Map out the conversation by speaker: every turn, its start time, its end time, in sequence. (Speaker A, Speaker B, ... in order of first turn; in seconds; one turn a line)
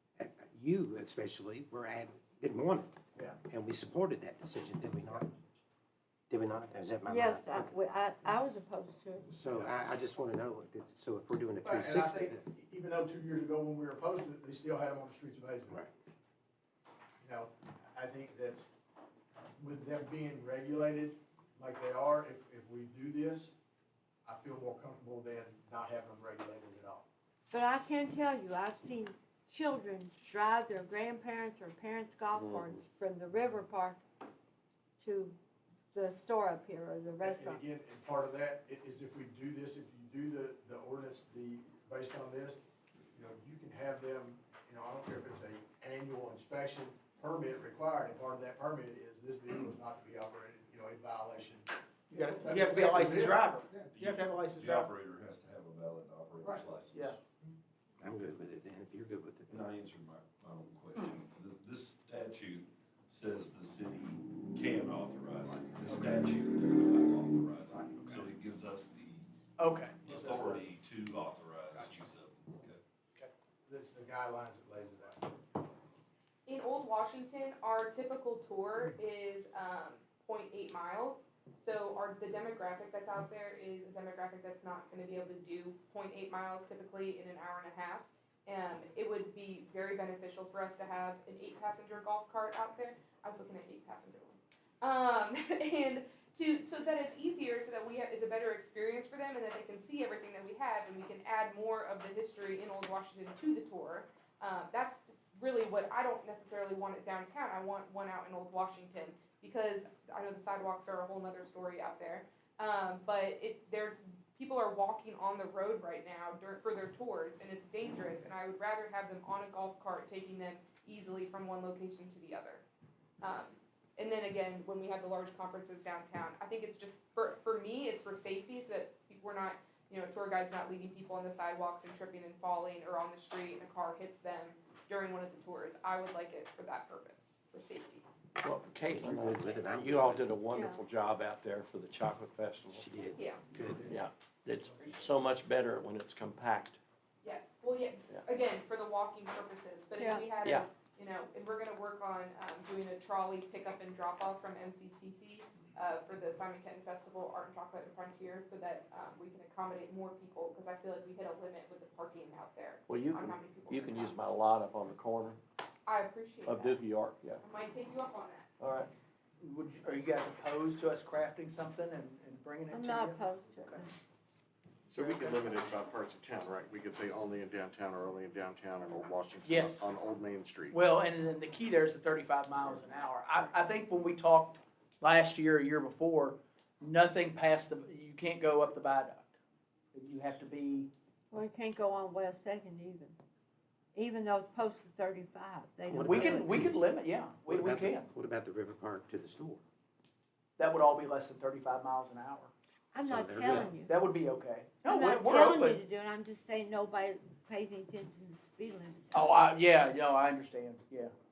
Speaker A: 0.2-5.3
Speaker A: 6.3-7.7
Speaker B: 7.0-9.3
Speaker A: 9.2-12.4
Speaker C: 9.4-9.7
Speaker C: 11.6-15.8
Speaker C: 17.2-18.6
Speaker C: 19.6-23.5
Speaker C: 24.2-27.1
Speaker B: 27.5-34.0
Speaker D: 32.4-32.8
Speaker B: 35.0-35.4
Speaker B: 35.9-37.6
Speaker C: 37.2-42.6
Speaker C: 43.1-53.6
Speaker E: 52.1-54.9
Speaker F: 53.8-57.2
Speaker E: 56.9-57.2
Speaker A: 58.0-59.5
Speaker F: 59.5-69.2
Speaker E: 60.9-61.2
Speaker E: 65.8-66.2
Speaker C: 67.9-68.2
Speaker E: 69.6-70.0
Speaker F: 70.0-72.8
Speaker C: 70.0-70.7
Speaker C: 73.7-75.4
Speaker G: 76.5-122.6
Speaker G: 123.2-138.0
Speaker D: 138.4-142.9
Speaker A: 138.9-140.3
Speaker B: 140.5-140.8
Speaker A: 142.7-143.9
Speaker G: 143.2-143.4
Speaker D: 143.8-146.8
Speaker G: 147.2-164.2
Speaker B: 150.0-150.3
Speaker D: 150.4-150.7
Speaker D: 162.9-165.4
Speaker G: 165.8-166.8
Speaker D: 166.4-167.4
Speaker G: 167.4-168.4
Speaker D: 168.6-168.9
Speaker E: 169.4-173.8
Speaker B: 172.7-173.9
Speaker E: 175.0-175.6
Speaker H: 175.4-180.7
Speaker E: 179.4-179.9
Speaker E: 180.7-189.3
Speaker E: 189.9-190.9
Speaker B: 191.3-193.2
Speaker B: 193.9-196.6
Speaker A: 195.9-196.8
Speaker E: 196.0-198.1
Speaker A: 197.4-199.6
Speaker E: 200.6-202.5
Speaker B: 202.9-204.0
Speaker A: 203.0-203.7
Speaker E: 203.4-205.8
Speaker B: 204.8-209.3
Speaker E: 209.1-211.1